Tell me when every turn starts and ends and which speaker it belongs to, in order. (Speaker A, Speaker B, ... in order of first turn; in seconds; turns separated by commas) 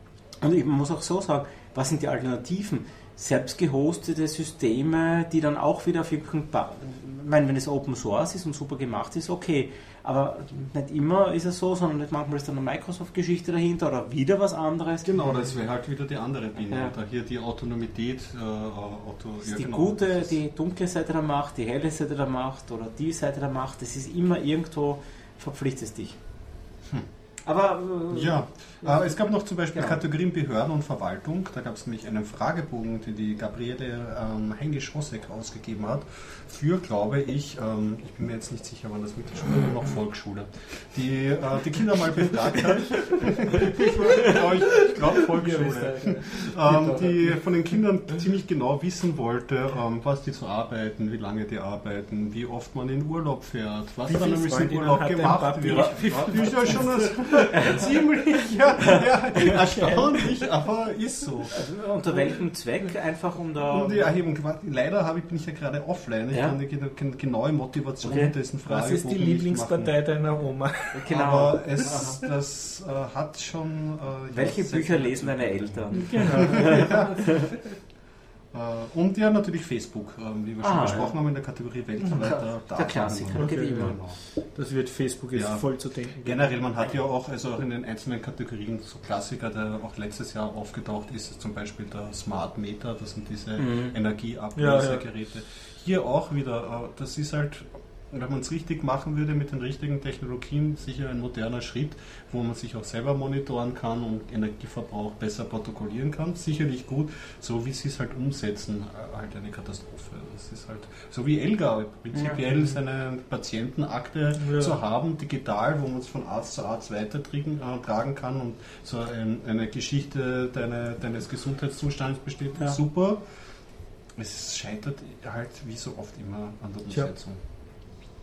Speaker A: 0.4-15.1, Speaker B: 15.0-20.3, Speaker A: 19.4-26.2, Speaker A: 27.4-29.1, Speaker B: 28.1-61.5, Speaker A: 29.7-30.0, Speaker A: 42.9-43.2, Speaker C: 43.8-47.4, Speaker C: 54.1-58.4, Speaker A: 57.6-57.8, Speaker A: 58.8-60.2, Speaker A: 61.5-64.1, Speaker B: 63.7-69.9, Speaker A: 66.3-66.6, Speaker A: 68.0-68.3, Speaker C: 68.7-71.3, Speaker A: 70.9-72.2, Speaker B: 71.1-77.5, Speaker A: 74.3-77.5, Speaker C: 75.9-77.5, Speaker B: 78.5-84.2, Speaker A: 80.6-81.1, Speaker A: 82.1-84.0, Speaker C: 83.3-86.5, Speaker B: 85.3-123.2, Speaker A: 93.6-93.9, Speaker C: 94.5-95.0, Speaker A: 112.1-112.4, Speaker C: 114.4-114.8, Speaker B: 124.2-127.4